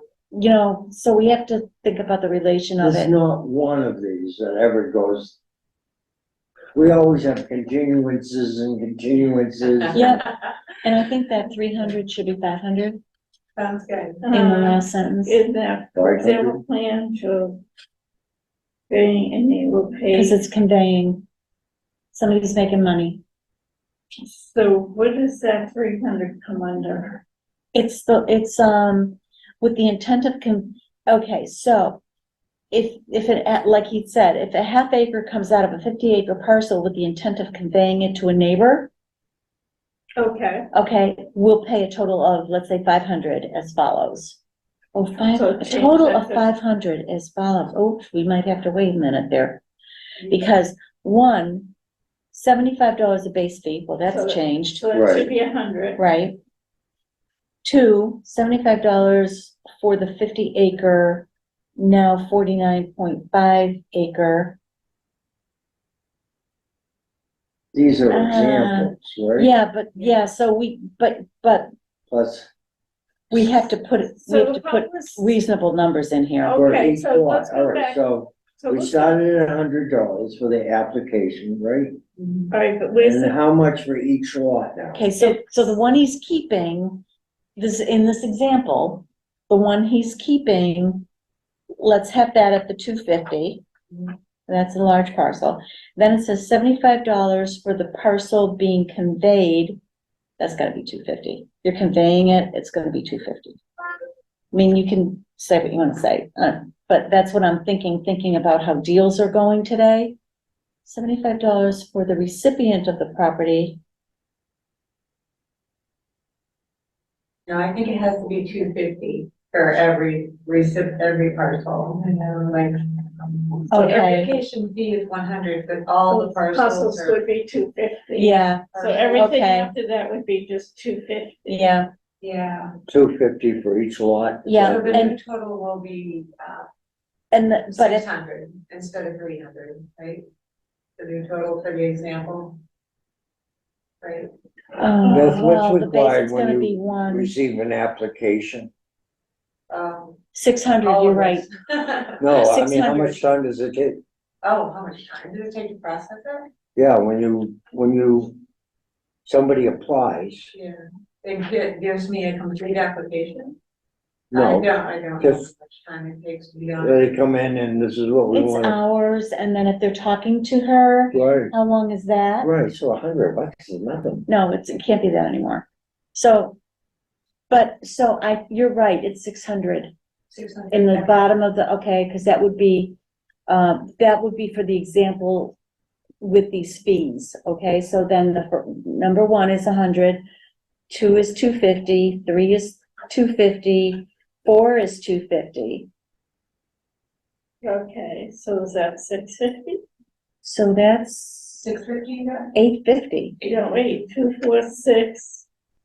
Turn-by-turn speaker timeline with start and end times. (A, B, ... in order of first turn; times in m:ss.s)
0:00.3-0:03.1 A
0:02.8-0:05.4 B
0:06.8-0:10.0 B
0:09.9-0:10.3 A
0:10.8-0:13.0 A
0:13.6-0:14.3 C
0:14.2-0:17.6 D
0:14.3-0:15.4 A
0:16.0-0:16.6 B
0:18.9-0:20.4 D
0:20.1-0:21.2 A
0:22.1-0:23.2 A
0:24.2-0:27.2 D
0:27.7-0:32.0 A
0:32.7-0:38.9 A
0:40.2-0:40.7 D
0:40.7-0:44.4 A
0:45.0-0:49.6 A
0:45.3-0:46.5 D
0:50.3-0:51.7 A
0:52.3-0:54.9 A
0:54.1-0:56.0 D
0:54.9-0:55.3 B
0:56.0-0:56.4 A
0:57.6-1:04.6 A
1:07.7-1:09.5 B
1:08.1-1:11.7 A
1:12.1-1:12.5 B
1:13.3-1:16.7 A
1:14.3-1:15.3 D
1:16.4-1:18.0 D
1:16.5-1:22.0 B
1:18.6-1:19.2 D
1:22.2-1:22.5 C
1:22.5-1:23.4 D
1:23.0-1:25.0 B
1:25.0-1:27.0 A
1:27.6-1:31.1 A
1:31.8-1:33.6 A
1:34.5-1:39.8 A
1:40.4-1:43.6 A
1:44.5-1:50.2 A
1:50.8-1:53.8 A
1:57.5-2:07.2 C
2:03.7-2:04.4 A
2:06.1-2:11.6 D
2:08.2-2:09.7 A
2:08.7-2:09.3 C
2:11.5-2:11.9 A
2:12.2-2:12.8 C
2:12.9-2:15.1 B
2:14.5-2:15.2 A
2:14.6-2:16.7 C
2:17.3-2:18.1 A
2:17.7-2:20.2 C
2:21.0-2:22.6 C
2:24.0-2:24.3 C
2:24.8-2:27.4 A
2:25.1-2:28.7 B
2:29.7-2:30.2 C
2:30.3-2:31.5 A
2:30.8-2:32.2 C
2:32.2-2:34.0 B
2:32.4-2:33.2 A
2:34.4-2:36.5 C
2:36.8-2:38.4 B
2:39.3-2:40.5 B
2:40.5-2:43.6 C
2:44.3-2:45.5 B
2:44.3-2:47.2 C
2:46.8-2:48.8 B
2:48.3-2:52.5 A
2:51.1-2:51.5 B
2:52.4-2:54.3 B
2:54.3-2:56.6 A
2:57.5-2:59.9 A
3:00.3-3:01.1 C
3:00.7-3:05.6 A
3:06.2-3:10.2 A
3:10.9-3:15.9 A
3:17.6-3:19.8 D
3:20.4-3:21.7 A
3:21.6-3:22.5 C
3:22.5-3:23.4 A
3:23.4-3:25.5 D